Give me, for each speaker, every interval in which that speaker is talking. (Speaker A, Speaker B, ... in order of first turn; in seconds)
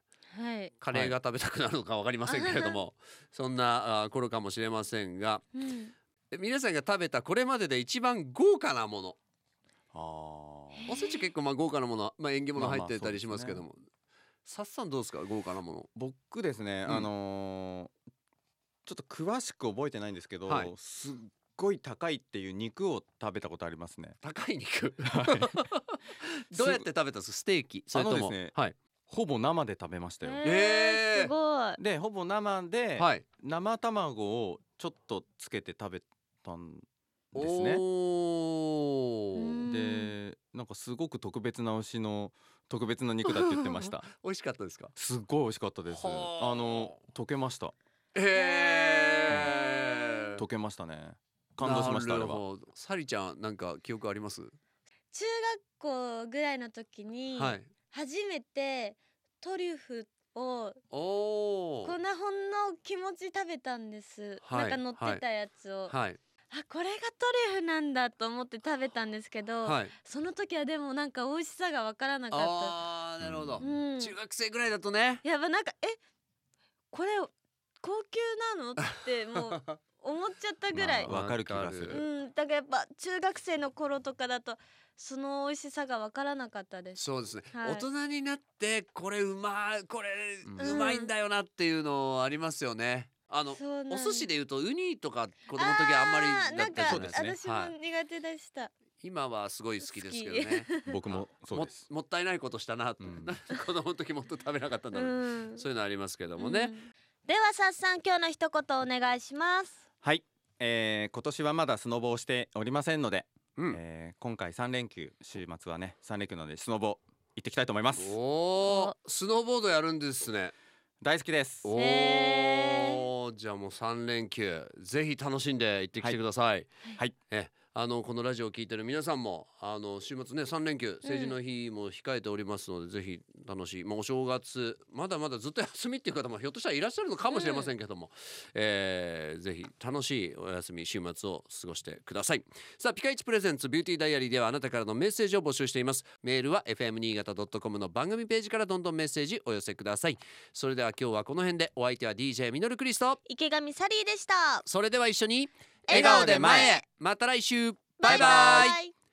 Speaker A: 0.3-0.7, 2.2-2.8, 5.5-5.9, 30.2-31.8, 39.4-40.1, 48.4-49.2, 55.1-60.8, 61.8-65.9, 66.5-72.7, 73.6-74.2, 75.2-76.0, 76.9-77.3, 77.8-81.2, 81.9-87.0, 87.5-87.8, 90.6-91.1, 93.5-94.3, 95.5-98.7, 99.8-101.0, 104.9-105.6, 106.4-109.8, 118.6-118.9, 121.8-123.0, 131.0-131.4, 137.3-137.7, 153.2-154.6, 155.9-156.8, 158.0-158.9
Speaker B: 0.8-5.4, 6.3-9.2, 10.8-13.8, 14.4-15.9, 20.4-20.7, 24.2-28.7, 30.4-31.3, 33.0-33.2, 37.3-39.6, 43.2-44.9, 45.9-47.0, 48.1-50.4, 51.6-54.5, 57.3-57.7, 60.9-62.0, 64.4-65.2, 65.9-66.2, 69.6-69.9, 72.3-75.2, 81.0-82.0, 87.0-97.7, 99.0-106.8, 118.0-120.5, 121.6-126.7, 127.3-153.2, 154.6-158.8
Speaker C: 9.9-10.9, 12.6-13.6, 15.9-17.9, 18.9-24.2, 25.1-25.6, 26.5-26.9, 27.9-28.5, 29.1-30.4, 31.8-37.8, 39.6-44.1, 45.0-47.7, 50.4-52.4, 73.2-73.7, 80.7-82.0, 90.4-90.8, 96.7-97.4, 100.8-101.9, 103.0-103.3, 110.0-118.2, 121.0-121.7, 155.9-156.8, 158.1-158.7